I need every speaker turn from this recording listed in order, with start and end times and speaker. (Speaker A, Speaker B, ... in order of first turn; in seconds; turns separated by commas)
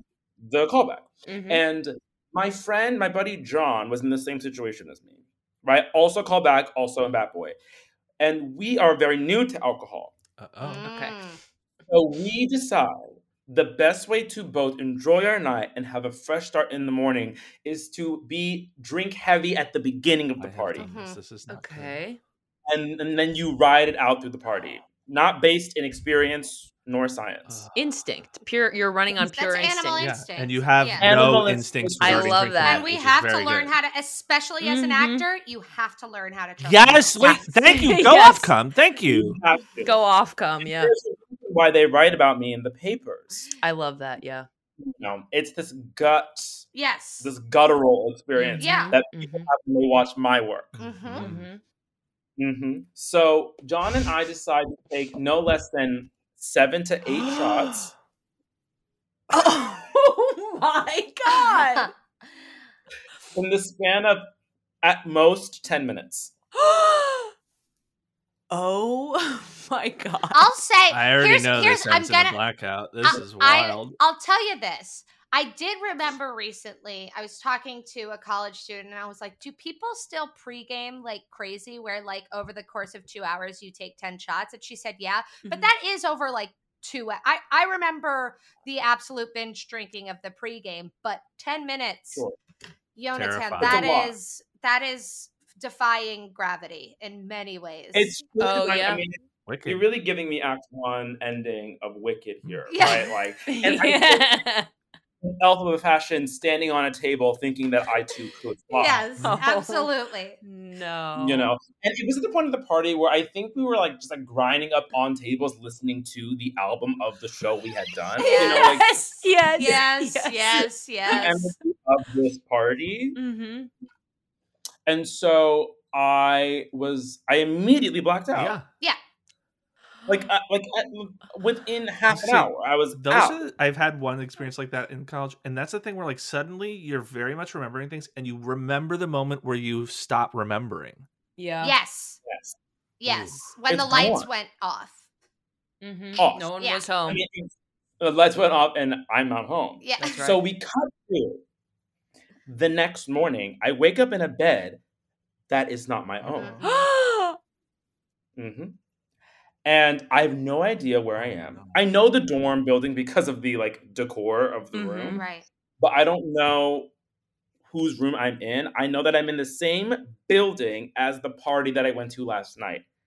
Speaker A: 0.4-7.5, Speaker B: 1.3-1.6, Speaker A: 8.2-10.1, Speaker C: 10.4-10.9, Speaker D: 10.6-11.4, Speaker B: 10.8-11.2, Speaker A: 11.9-20.9, Speaker C: 20.4-22.0, Speaker D: 20.8-21.2, Speaker B: 21.5-22.2, Speaker A: 22.7-27.6, Speaker C: 27.5-27.7, Speaker B: 27.7-30.1, Speaker D: 29.1-31.1, Speaker C: 30.0-33.7, Speaker A: 31.0-32.5, Speaker B: 32.0-32.8, Speaker D: 32.6-37.4, Speaker B: 34.6-35.2, Speaker C: 36.6-39.4, Speaker B: 37.6-38.5, Speaker A: 39.1-40.0, Speaker B: 39.8-40.9, Speaker A: 40.6-43.5, Speaker B: 43.6-44.5, Speaker A: 44.8-46.6, Speaker D: 46.7-47.3, Speaker A: 47.2-50.9, Speaker B: 48.4-49.5, Speaker D: 48.6-48.9, Speaker C: 50.8-51.5, Speaker D: 50.8-51.3, Speaker B: 51.1-51.6, Speaker A: 52.4-57.9, Speaker B: 57.1-57.8, Speaker B: 59.3-61.9, Speaker D: 61.3-61.9, Speaker A: 63.3-64.3, Speaker A: 64.8-66.3, Speaker B: 66.5-67.3, Speaker B: 68.5-70.5, Speaker D: 70.3-72.4, Speaker C: 70.9-74.0, Speaker D: 73.0-92.2, Speaker B: 85.4-85.7, Speaker D: 93.0-98.2, Speaker C: 93.1-93.9, Speaker A: 93.6-94.1, Speaker A: 97.9-104.2, Speaker B: 98.4-99.0, Speaker C: 99.5-99.8, Speaker D: 102.7-103.1, Speaker B: 103.5-104.7, Speaker A: 105.2-109.1, Speaker D: 108.7-110.4, Speaker B: 109.2-109.9, Speaker B: 110.4-111.5, Speaker A: 111.2-118.9, Speaker D: 118.2-118.8, Speaker B: 118.2-121.3, Speaker D: 119.5-121.5, Speaker A: 121.1-123.2, Speaker B: 123.2-123.7, Speaker A: 124.9-128.6, Speaker C: 128.3-128.7, Speaker A: 130.1-133.4, Speaker C: 132.1-141.1, Speaker B: 141.4-141.7, Speaker D: 141.6-142.2, Speaker A: 142.2-142.6, Speaker D: 143.0-145.0, Speaker C: 143.1-143.4, Speaker A: 143.7-144.3, Speaker B: 145.8-147.2, Speaker A: 146.2-146.5, Speaker A: 147.1-151.4, Speaker D: 149.8-150.2, Speaker B: 150.0-150.4, Speaker A: 152.4-154.8, Speaker A: 155.5-156.6, Speaker C: 156.2-156.8, Speaker D: 156.3-156.6, Speaker B: 156.6-157.4, Speaker A: 158.4-158.7, Speaker A: 159.6-165.2, Speaker C: 161.2-161.8, Speaker B: 164.7-165.2, Speaker D: 165.1-165.4, Speaker A: 165.8-166.9, Speaker A: 167.7-172.8